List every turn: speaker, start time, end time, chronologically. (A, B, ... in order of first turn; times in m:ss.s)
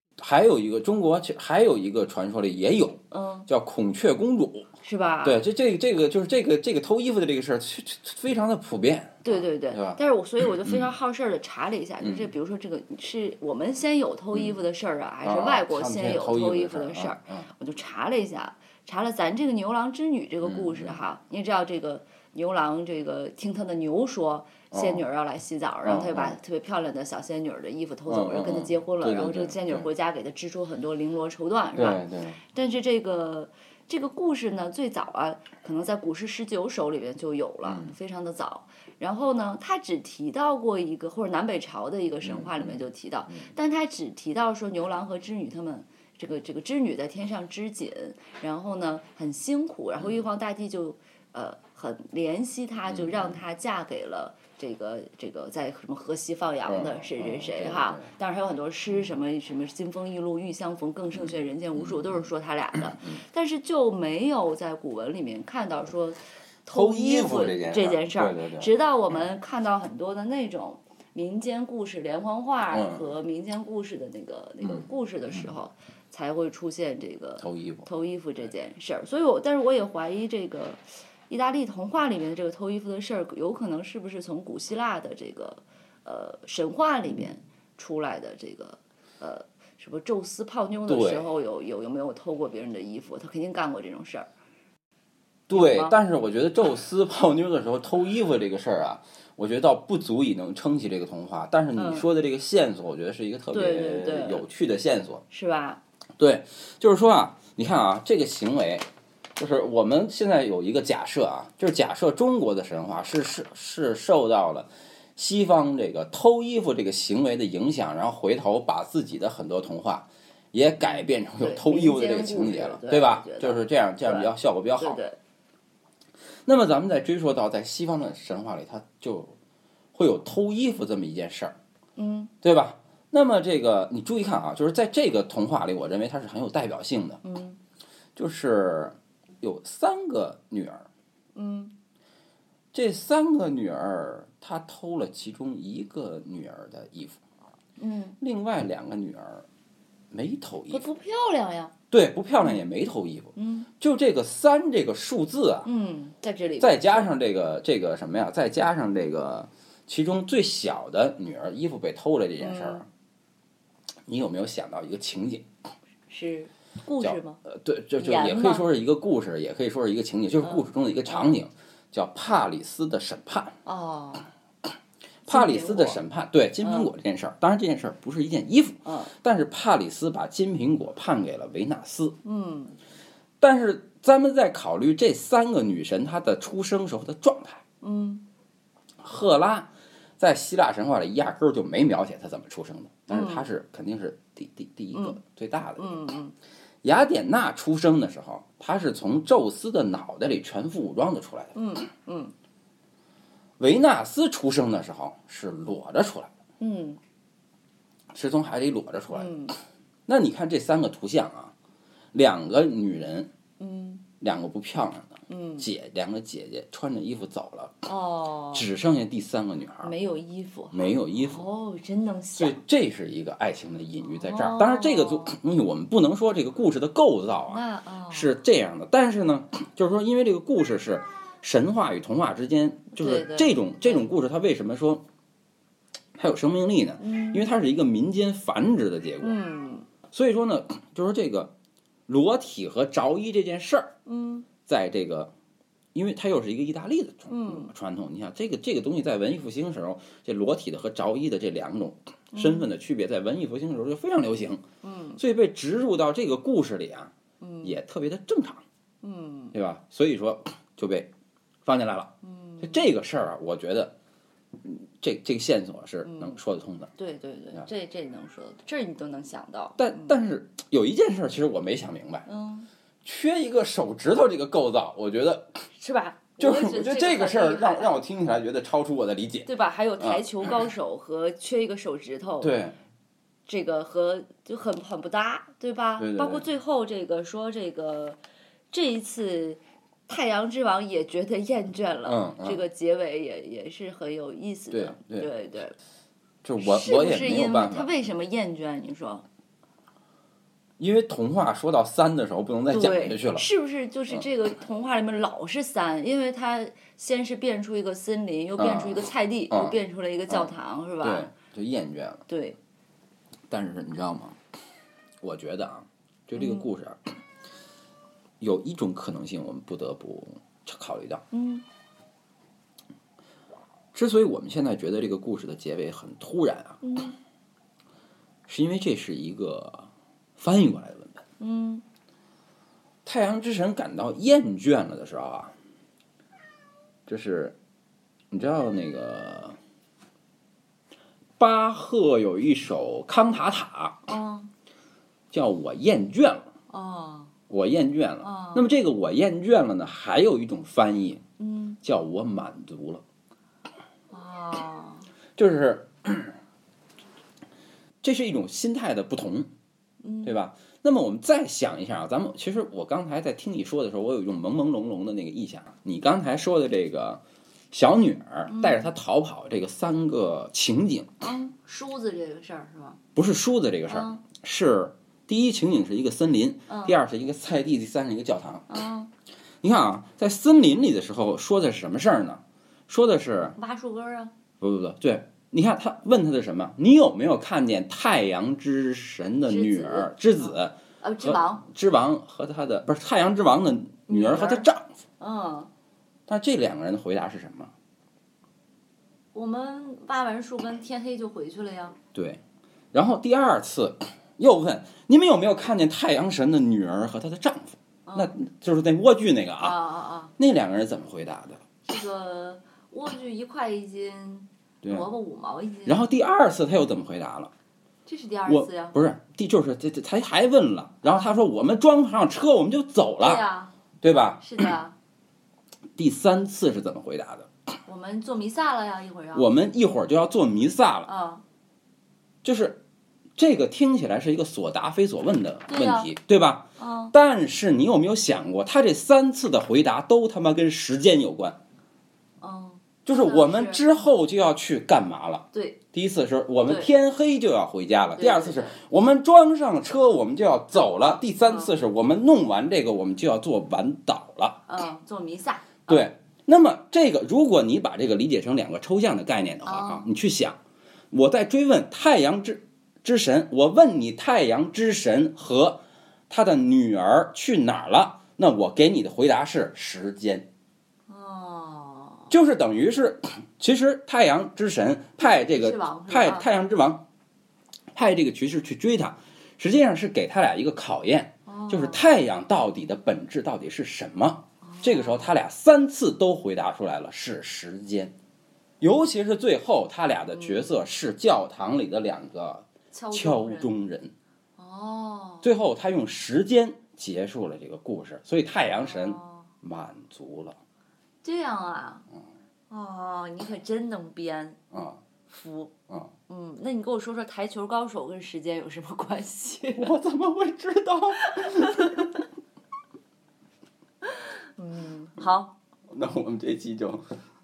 0:00.2-0:04.7 A
0:03.1-0:03.5 B
0:04.8-0:05.4 B
0:05.2-0:10.0 A
0:09.2-1:34.3 B
0:10.6-0:10.9 A
0:12.0-0:12.3 A
0:15.2-0:17.5 A
0:20.4-0:21.0 A
0:24.7-0:25.0 A
0:25.8-0:26.4 A
0:28.1-0:29.8 A
0:31.7-0:32.4 A
0:37.6-0:37.9 A
0:42.2-0:42.8 A
0:52.9-0:53.3 A
0:56.7-0:58.1 A
1:06.7-1:08.7 A
1:12.7-1:13.0 A
1:17.4-1:17.9 A
1:30.9-1:31.3 A
1:35.5-1:45.2 A
1:35.5-1:36.0 B
1:41.8-1:42.1 B
1:43.5-1:44.4 B
1:45.3-1:45.8 B
1:46.2-1:48.8 A
1:49.4-2:05.0 A
2:00.8-2:05.2 B
2:06.4-2:09.3 A
2:09.9-2:11.6 A
2:12.0-2:12.3 B
2:12.4-2:17.2 A
2:17.2-2:17.6 B
2:18.2-2:20.9 A
2:21.3-2:21.7 B
2:22.7-2:27.2 A
2:27.8-2:28.2 B
2:28.2-2:29.4 A
2:30.1-2:30.8 A
2:30.7-2:31.7 B
2:31.9-2:35.7 A
2:33.4-2:33.7 B
2:35.6-2:37.1 B
2:36.6-2:42.8 A
2:42.4-2:42.8 B
2:44.1-2:45.5 A
2:46.1-2:47.4 B
2:47.0-2:53.6 A
2:48.0-2:48.7 B
2:50.4-2:50.7 B
2:53.6-2:54.3 B
2:55.2-3:02.2 A
2:55.3-2:56.0 B
2:56.6-2:56.9 B
2:58.8-2:59.1 B
3:02.2-3:02.8 B
3:03.4-3:07.6 A
3:07.8-3:08.2 B
3:09.0-3:16.0 A
3:13.1-3:13.5 B
3:14.9-3:15.2 B
3:15.8-3:16.3 B
3:16.8-3:21.6 A
3:21.5-3:22.3 B
3:23.6-3:26.3 A
3:26.6-3:27.0 B
3:28.1-3:29.3 A
3:29.1-3:29.6 B
3:30.1-3:31.5 A
3:32.1-3:33.3 A
3:33.6-3:34.0 B
3:34.2-3:37.9 A
3:35.3-3:35.7 B
3:37.8-3:38.7 B
3:38.5-3:39.9 A
3:39.8-3:42.6 B
3:40.7-3:41.4 A
3:42.4-3:55.0 A
3:44.1-3:45.3 B
3:47.5-3:48.4 B
3:52.9-3:54.1 B
3:56.2-3:59.4 A
3:57.0-3:57.4 B
3:59.2-3:59.9 B
4:00.1-4:01.5 A
4:02.1-4:03.9 A
4:04.0-4:04.5 B
4:04.6-4:05.3 A
4:05.9-4:14.6 A
4:07.3-4:07.7 B
4:12.3-4:12.7 B
4:14.8-4:15.2 B
4:15.2-4:17.1 A
4:17.4-4:17.8 B
4:17.6-4:18.6 A
4:19.0-4:19.5 B
4:19.5-4:21.1 A
4:21.6-4:23.9 A
4:22.2-4:22.8 B
4:24.6-4:26.9 A
4:26.0-4:26.4 B
4:27.0-4:30.1 B
4:29.8-4:32.2 A
4:32.2-4:32.7 B
4:33.0-4:35.6 A
4:35.8-4:37.9 B
4:36.4-4:40.2 A
4:39.4-4:42.6 B
4:42.4-4:42.8 A
4:43.5-4:48.2 B
4:46.0-4:46.4 A
4:48.7-4:55.8 B
4:52.0-4:52.6 A
4:54.7-4:55.3 A
4:56.4-4:57.9 A
4:56.6-4:59.2 B
5:00.8-5:03.4 A
5:02.7-5:11.3 B
5:08.6-5:09.8 A
5:10.3-5:12.2 A
5:12.3-5:12.6 B
5:13.5-5:14.4 A
5:15.2-5:17.1 A
5:16.4-5:16.7 B
5:18.4-5:21.2 A
5:21.3-5:21.6 B
5:23.9-5:26.8 A
5:26.8-5:27.2 B
5:28.5-5:31.2 A
5:31.4-5:31.8 B
5:33.0-5:35.5 A
5:37.1-5:37.6 A
5:38.3-5:39.6 A
5:41.4-5:44.0 A
5:44.0-5:44.5 B
5:45.3-5:46.5 A
5:46.7-5:47.3 B
5:47.5-5:51.2 A
5:48.2-5:48.7 B
5:51.4-5:51.8 B
5:51.8-5:53.0 A
5:54.1-5:55.1 B
5:55.4-5:56.4 A
5:58.0-5:59.5 A
6:00.0-6:00.4 B
6:00.2-6:07.2 A
6:07.7-6:11.2 A
6:08.5-6:08.9 B
6:11.2-6:13.0 B
6:13.2-6:18.7 A
6:13.9-6:14.2 B
6:16.7-6:17.0 B
6:18.7-6:19.1 B
6:19.6-6:23.6 A
6:23.6-6:24.3 B
6:24.6-6:34.9 A
6:29.4-6:31.6 B
6:34.1-6:34.7 B
6:35.2-6:35.7 B
6:36.3-6:37.7 A
6:39.3-6:42.0 B
6:42.1-6:42.4 A
6:42.9-6:49.8 A
6:48.0-6:48.3 B
6:49.6-6:50.3 B
6:50.4-6:51.6 A
6:51.8-6:56.0 B
6:54.8-6:55.1 A
6:55.8-6:57.5 A
6:58.0-6:59.0 B
6:58.4-7:03.4 A
7:03.2-7:03.7 B
7:04.0-7:04.4 A
7:04.4-7:04.9 B
7:06.0-7:07.5 A
7:07.8-7:09.5 B
7:09.3-7:11.1 A
7:11.0-7:11.4 B
7:12.4-7:12.8 A
7:13.4-7:21.6 A
7:15.7-7:16.1 B
7:16.8-7:17.1 B
7:22.4-7:23.9 B
7:23.0-7:34.6 A
7:25.5-7:25.8 B
7:26.6-7:26.9 B
7:28.2-7:28.8 B
7:30.8-7:31.8 B
7:34.7-7:36.1 B
7:35.9-7:40.6 A
7:39.6-7:40.1 B
7:41.1-7:50.5 A
7:51.1-7:52.3 B
7:52.3-7:57.0 A
7:55.2-7:56.5 B
7:57.9-8:08.1 A
8:01.4-8:02.1 B
8:04.6-8:05.3 B
8:08.8-8:14.1 A
8:10.3-8:10.8 B
8:12.9-8:13.7 B
8:14.6-8:15.5 B
8:15.4-8:20.6 A
8:18.8-8:19.5 B
8:21.2-8:22.0 B
8:22.7-8:24.6 B
8:24.7-8:25.0 A
8:25.3-8:25.7 B
8:26.3-8:29.9 B
8:29.8-8:32.1 A
8:31.1-8:32.2 B
8:34.0-8:35.6 B
8:35.9-8:37.0 A